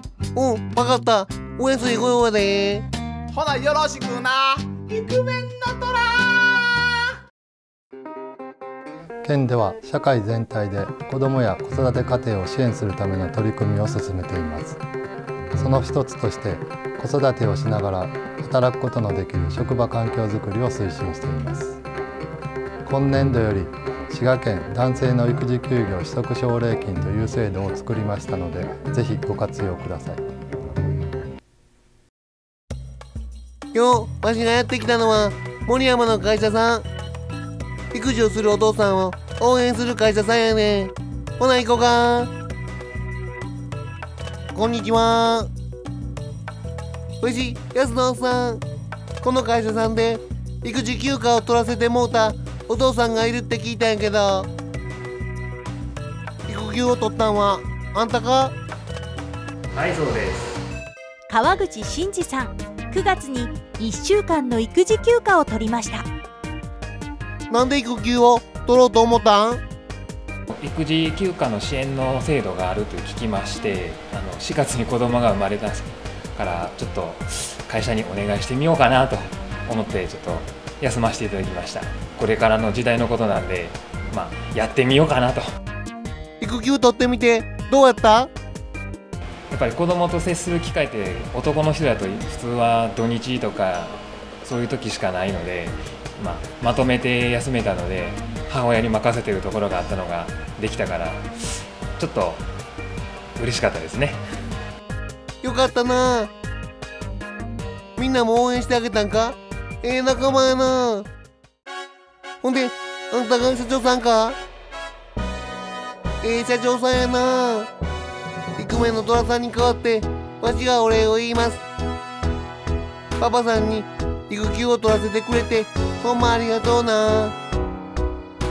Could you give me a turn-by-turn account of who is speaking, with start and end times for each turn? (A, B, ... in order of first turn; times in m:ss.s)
0:00.3-0:02.9 A
0:03.3-0:06.8 B
0:09.2-0:14.8 C
0:15.5-0:21.8 C
0:22.8-0:30.2 C
0:33.7-0:36.8 A
0:37.9-0:42.3 A
0:44.5-0:45.5 A
0:47.2-0:48.6 A
0:49.2-0:54.5 A
0:56.5-0:58.5 A
0:59.7-1:00.6 D
1:01.3-1:06.0 E
1:07.5-1:09.6 A
1:10.5-1:25.4 D
1:26.4-1:28.3 A
1:29.5-1:41.2 D
1:42.0-1:42.4 D
1:43.4-1:44.2 D
1:45.4-1:46.3 A
1:48.0-1:51.1 A
1:52.4-1:54.4 A
1:56.2-1:57.7 A
1:58.6-2:01.6 A
2:03.2-2:07.4 A